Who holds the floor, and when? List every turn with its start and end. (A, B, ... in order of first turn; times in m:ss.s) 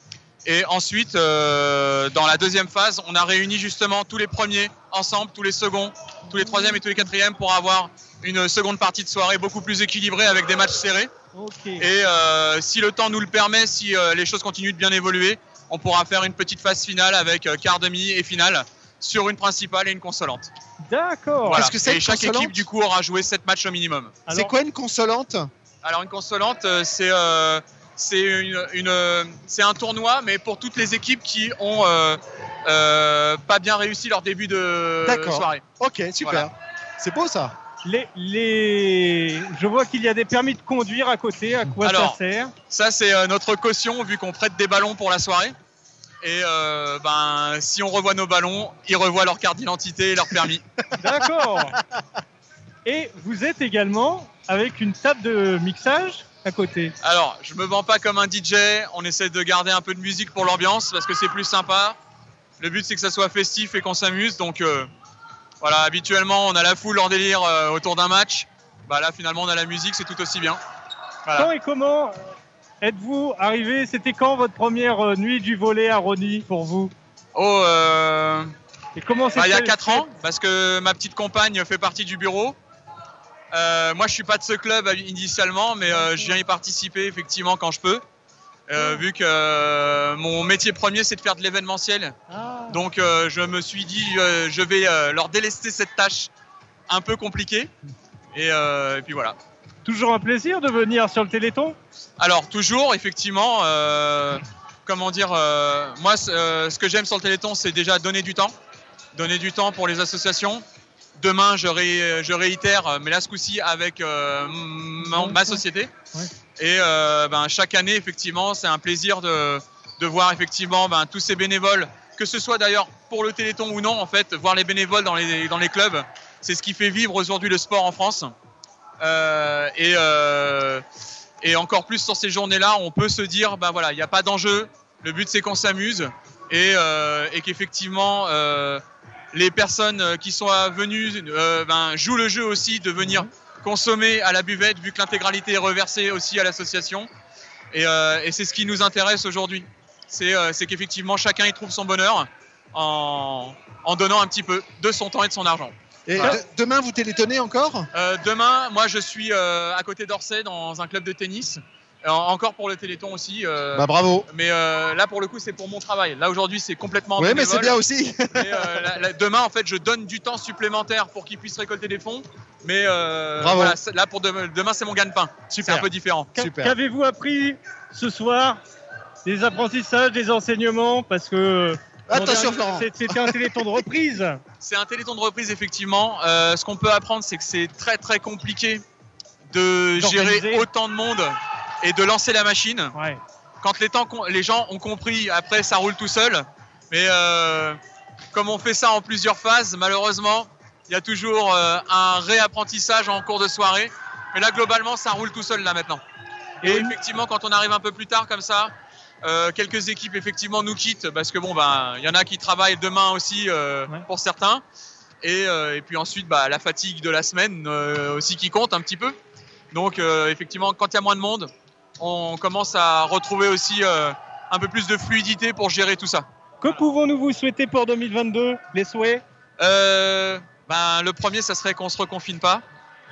0:00.4-0:11.1 A
0:06.3-0:06.8 B
0:11.3-0:11.8 B
0:11.8-0:20.5 A
0:20.9-0:21.7 B
0:21.5-0:22.6 C
0:21.5-0:24.2 A
0:24.3-0:24.5 B
0:24.3-0:25.5 C
0:25.8-0:35.6 A
0:35.0-0:37.6 C
0:36.2-0:36.5 A
0:37.8-0:42.5 B
0:41.8-0:42.2 A
0:42.7-0:45.6 A
0:46.2-0:50.6 A
0:51.0-0:51.8 B
0:52.8-0:56.9 B
0:57.0-1:02.0 A
1:02.6-1:04.9 A
1:05.6-1:10.6 A
1:11.4-1:16.9 B
1:17.4-1:18.5 A
1:19.0-1:20.1 B
1:19.4-1:22.6 A
1:23.5-1:28.0 A
1:26.0-1:26.3 B
1:28.7-1:32.2 A
1:28.8-1:29.0 B
1:32.3-1:32.8 B
1:32.7-1:36.3 A
1:36.9-1:37.7 A
1:38.3-1:39.4 A
1:39.8-1:41.8 B
1:42.2-1:48.5 A
1:49.2-1:50.6 A
1:51.2-1:55.9 A
1:55.0-1:55.6 B
1:56.6-2:08.3 A
2:09.0-2:10.8 A
2:11.4-2:27.1 A
2:27.7-2:36.4 A
2:36.1-2:37.9 C
2:37.9-2:47.8 A
2:43.7-2:44.3 C
2:47.2-2:48.9 C
2:48.3-2:56.3 A
2:53.4-2:53.8 C
2:55.5-2:56.8 C
2:56.4-2:58.6 B
2:59.2-3:04.4 B
3:02.1-3:03.5 C
3:04.6-3:08.8 A
3:09.5-3:12.9 A
3:10.0-3:10.6 B
3:13.0-3:13.2 B
3:13.6-3:17.8 A
3:18.3-3:26.0 A
3:26.6-3:26.9 B
3:26.6-3:34.6 A
3:35.2-3:39.2 A
3:39.7-3:46.3 A
3:46.6-3:49.2 B
3:49.6-3:52.6 A